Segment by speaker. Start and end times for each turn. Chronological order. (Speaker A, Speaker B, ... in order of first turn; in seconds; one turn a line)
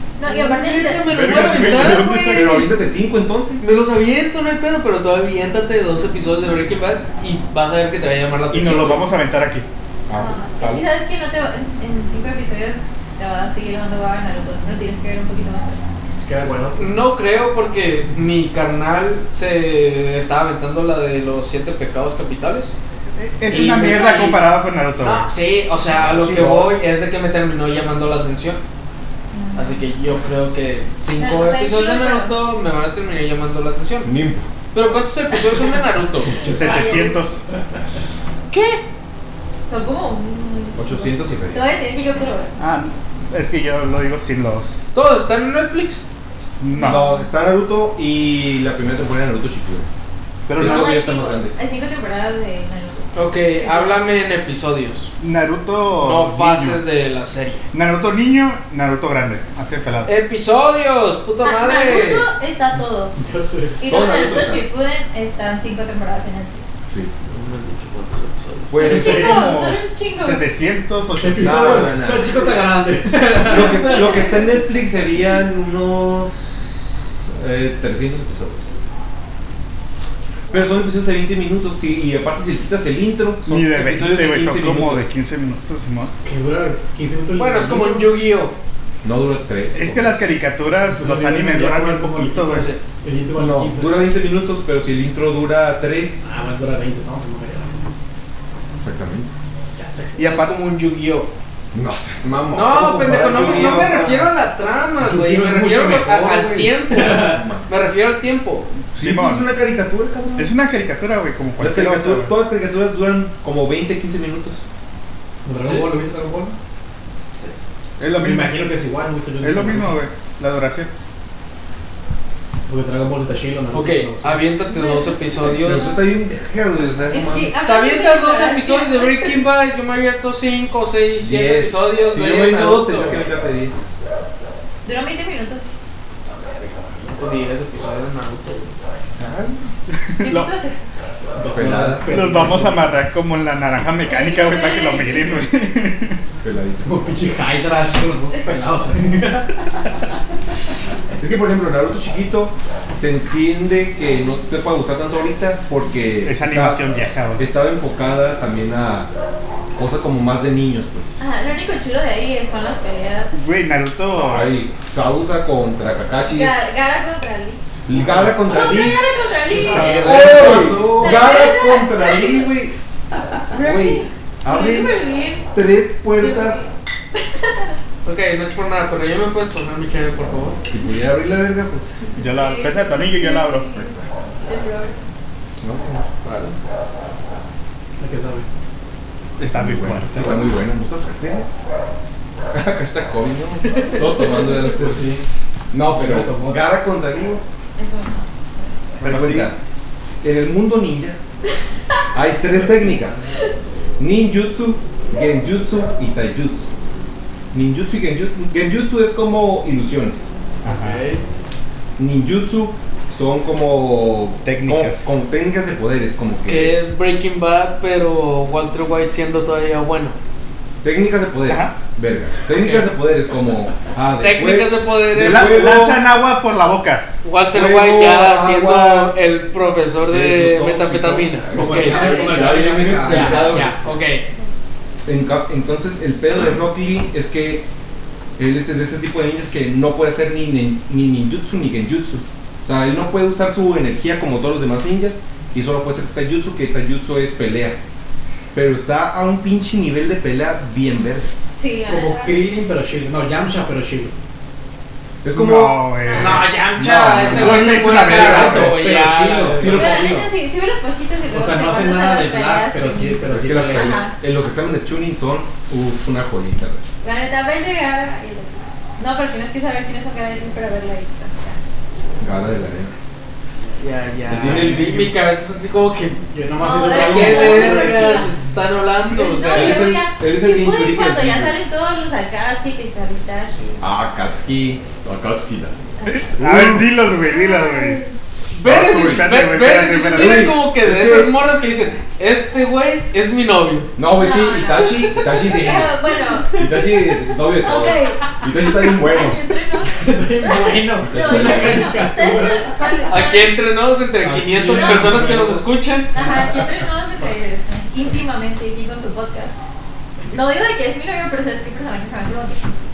Speaker A: 0.2-1.1
Speaker B: 0.2-2.7
Speaker C: 1.1-2.7
Speaker D: 1.6-3.7
Speaker B: 3.6-9.1
Speaker C: 8.5-9.7
Speaker D: 10.1-10.9
Speaker A: 10.1-15.8
Speaker E: 16.2-16.9
Speaker B: 16.8-22.7
Speaker C: 23.2-25.3
Speaker B: 23.5-24.4
Speaker B: 25.0-28.6
Speaker D: 25.9-26.7
Speaker A: 29.3-29.8
Speaker B: 29.6-34.1
Speaker A: 31.2-32.4
Speaker D: 34.0-34.5
Speaker B: 34.7-36.5
Speaker C: 36.4-37.4
Speaker A: 36.5-37.2
Speaker B: 38.5-38.8
Speaker A: 39.7-42.5
Speaker D: 40.8-41.6
Speaker C: 42.6-44.8
Speaker B: 44.9-46.0
Speaker C: 46.6-47.0
Speaker A: 46.8-47.2
Speaker D: 46.8-49.9
Speaker C: 50.5-51.0
Speaker D: 50.5-51.5
Speaker A: 50.6-54.0
Speaker B: 53.1-55.1
Speaker C: 55.2-56.8
Speaker B: 56.0-57.7
Speaker C: 57.7-60.1
Speaker B: 60.0-62.3
Speaker A: 61.4-63.2
Speaker E: 63.2-63.8
Speaker A: 63.8-66.7
Speaker D: 63.8-64.7
Speaker D: 66.9-67.1
Speaker B: 67.3-68.8
Speaker D: 68.7-69.5
Speaker A: 68.8-70.4
Speaker E: 68.8-69.4
Speaker C: 69.0-72.0
Speaker E: 71.2-74.0
Speaker D: 71.4-72.5
Speaker D: 73.4-78.7
Speaker A: 73.7-74.5
Speaker D: 80.5-85.1
Speaker C: 83.5-86.1
Speaker E: 86.2-88.1
Speaker B: 87.4-88.6
Speaker D: 89.0-90.2
Speaker C: 89.7-92.7
Speaker E: 90.9-94.1
Speaker B: 92.5-92.8
Speaker D: 93.3-96.2
Speaker E: 96.2-97.9
Speaker D: 98.8-99.3
Speaker E: 99.8-100.2
Speaker B: 100.2-101.3
Speaker C: 100.2-100.5
Speaker D: 101.7-104.3
Speaker B: 102.5-108.7
Speaker E: 103.1-104.3
Speaker E: 105.0-107.5
Speaker D: 107.3-107.7
Speaker D: 108.9-110.5
Speaker C: 109.0-109.5
Speaker C: 110.4-112.3
Speaker D: 111.6-114.7
Speaker E: 115.4-116.6
Speaker B: 115.6-115.9
Speaker C: 118.0-118.7
Speaker E: 118.2-120.0
Speaker C: 119.4-120.9
Speaker E: 122.7-124.4
Speaker B: 123.7-126.0
Speaker A: 124.7-126.0
Speaker D: 125.5-127.6
Speaker A: 127.1-129.4
Speaker B: 127.6-133.3
Speaker D: 131.2-133.9
Speaker A: 134.8-135.7
Speaker B: 136.3-138.8
Speaker D: 139.1-139.7
Speaker C: 140.1-140.5
Speaker A: 140.2-140.8
Speaker E: 141.3-142.9
Speaker D: 141.5-142.2
Speaker C: 142.1-146.2
Speaker A: 144.1-145.6
Speaker D: 146.4-146.9
Speaker E: 146.8-149.9
Speaker D: 151.2-156.8
Speaker C: 156.2-157.5
Speaker D: 157.4-159.1
Speaker D: 159.8-161.2
Speaker A: 161.2-163.4
Speaker C: 163.3-164.6
Speaker D: 164.1-166.7
Speaker A: 166.3-167.6
Speaker D: 167.9-169.0
Speaker E: 167.9-171.4
Speaker A: 168.4-172.5
Speaker B: 169.6-170.3
Speaker D: 169.7-172.7
Speaker A: 173.5-175.5
Speaker D: 173.5-175.0
Speaker D: 175.5-176.7
Speaker A: 176.2-177.8
Speaker B: 178.0-180.6
Speaker D: 180.7-181.9
Speaker A: 182.2-185.0
Speaker C: 182.2-183.7
Speaker D: 183.8-184.1
Speaker D: 185.6-186.1
Speaker B: 186.2-186.6
Speaker E: 188.0-188.5
Speaker C: 189.4-190.5
Speaker D: 189.4-191.5
Speaker D: 192.5-195.1
Speaker B: 193.7-194.5
Speaker E: 194.6-195.2
Speaker D: 195.7-197.4
Speaker E: 195.9-196.7
Speaker A: 197.8-199.0
Speaker D: 199.0-199.6
Speaker C: 199.0-199.5
Speaker D: 200.2-201.2
Speaker D: 202.1-203.3
Speaker D: 204.0-206.7
Speaker D: 207.5-210.3
Speaker C: 210.6-211.0
Speaker B: 210.6-211.2
Speaker D: 212.0-216.8
Speaker C: 214.4-215.1
Speaker B: 216.4-220.2
Speaker D: 220.8-226.0
Speaker C: 221.5-221.7
Speaker B: 222.5-222.9
Speaker B: 224.2-225.7
Speaker C: 225.1-227.1
Speaker B: 227.2-234.2
Speaker D: 227.5-229.2
Speaker D: 230.1-233.8
Speaker E: 231.5-233.7
Speaker D: 235.1-237.7
Speaker D: 238.4-247.8
Speaker D: 248.5-251.5
Speaker A: 251.6-252.8
Speaker E: 251.8-254.1
Speaker D: 255.2-258.7
Speaker C: 255.3-256.5
Speaker A: 256.0-256.4
Speaker B: 256.1-260.1
Speaker C: 257.3-258.8
Speaker E: 258.0-260.3
Speaker D: 259.6-260.3
Speaker A: 259.7-264.1
Speaker E: 261.3-264.0
Speaker D: 263.3-266.8
Speaker A: 267.0-271.6
Speaker D: 272.2-272.9
Speaker B: 273.8-276.3
Speaker D: 274.3-275.1
Speaker E: 276.3-278.4
Speaker A: 276.6-278.3
Speaker B: 276.9-279.9
Speaker A: 279.1-283.8
Speaker D: 279.5-281.6
Speaker D: 283.8-285.8
Speaker A: 286.0-286.3
Speaker C: 286.1-288.0
Speaker D: 286.4-286.9
Speaker A: 287.3-288.1
Speaker C: 288.6-290.6
Speaker B: 288.6-293.9
Speaker D: 288.6-289.3
Speaker D: 290.1-291.3
Speaker D: 294.0-299.4
Speaker A: 294.1-297.0
Speaker A: 297.6-303.6
Speaker E: 299.8-303.1
Speaker D: 301.0-302.0
Speaker B: 303.1-306.1
Speaker E: 304.2-305.7
Speaker A: 304.7-305.2
Speaker A: 306.1-309.6
Speaker E: 306.2-306.6
Speaker A: 310.3-312.6